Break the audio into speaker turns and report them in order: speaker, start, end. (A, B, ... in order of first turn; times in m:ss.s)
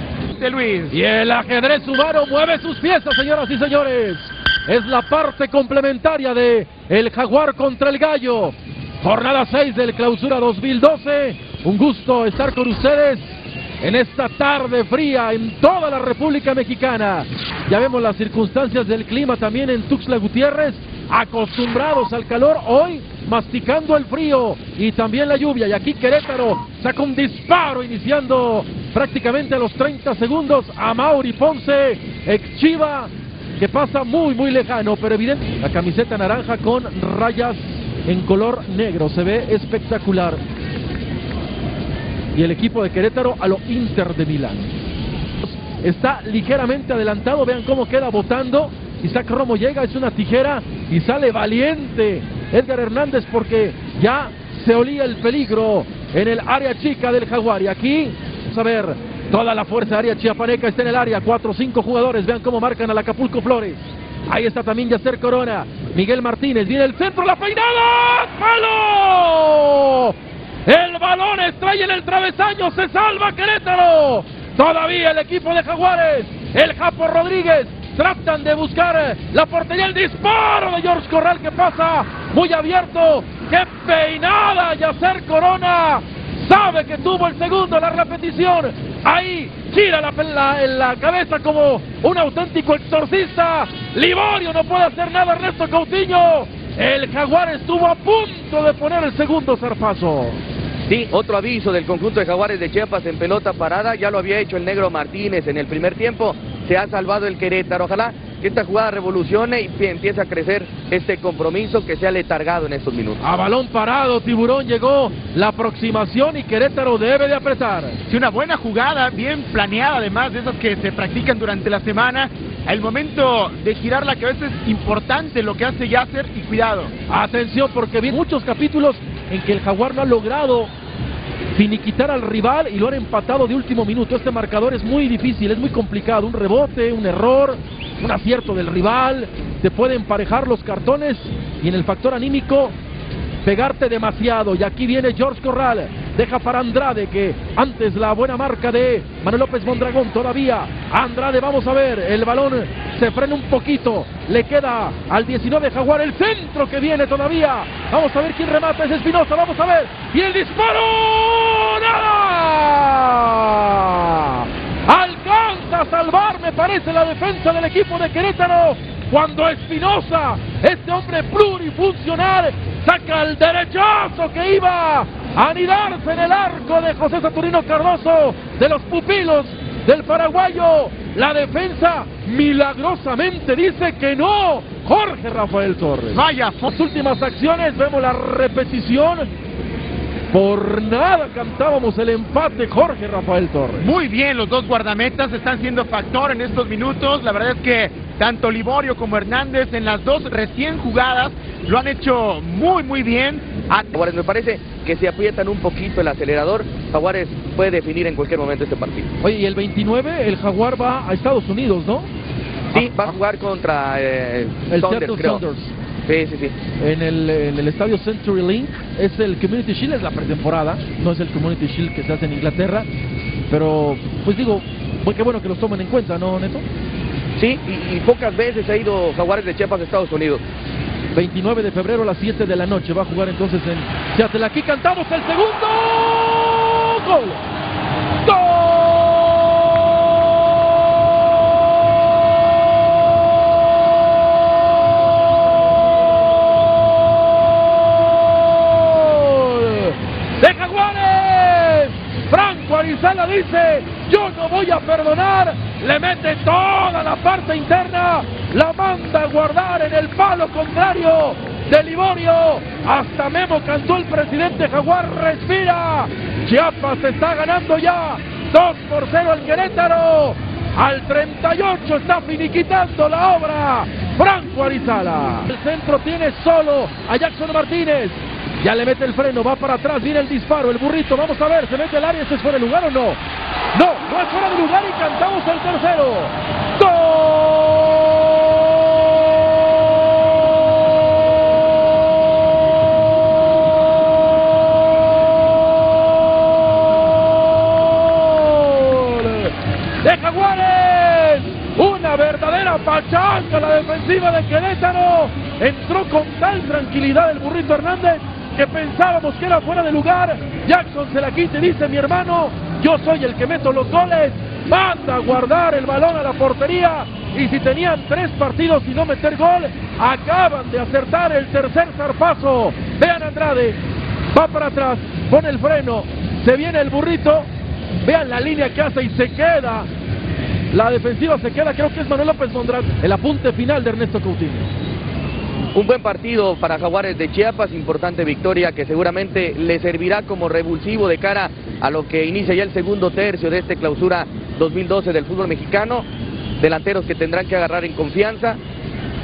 0:00.3-0:00.9 A
0:00.9-0:40.4 B
0:42.3-0:44.7 B
0:45.4-1:10.1 B
1:10.6-1:40.4 B
1:40.9-1:53.2 C
1:53.2-1:58.0 B
1:58.1-2:06.9 A
2:07.1-2:10.7 B
2:11.5-2:22.8 B
2:23.4-3:09.3 B
3:06.1-3:06.7 A
3:10.3-3:13.9 B
3:13.8-3:23.9 A
3:23.9-3:29.1 C
3:29.2-3:32.1 B
3:32.7-3:35.4 C
3:34.7-3:35.7 B
3:36.0-3:36.5 C
3:36.8-3:42.9 B
3:43.5-3:46.6 B
3:47.4-3:50.4 C
3:51.1-3:57.4 B
3:58.2-3:59.3 B
4:07.1-4:43.2 B
4:43.7-4:48.5 B
4:55.1-5:23.8 B
5:24.3-5:27.5 B
5:28.0-5:29.9 B
5:30.7-5:34.7 B
5:35.7-5:46.0 C
5:46.6-5:48.6 C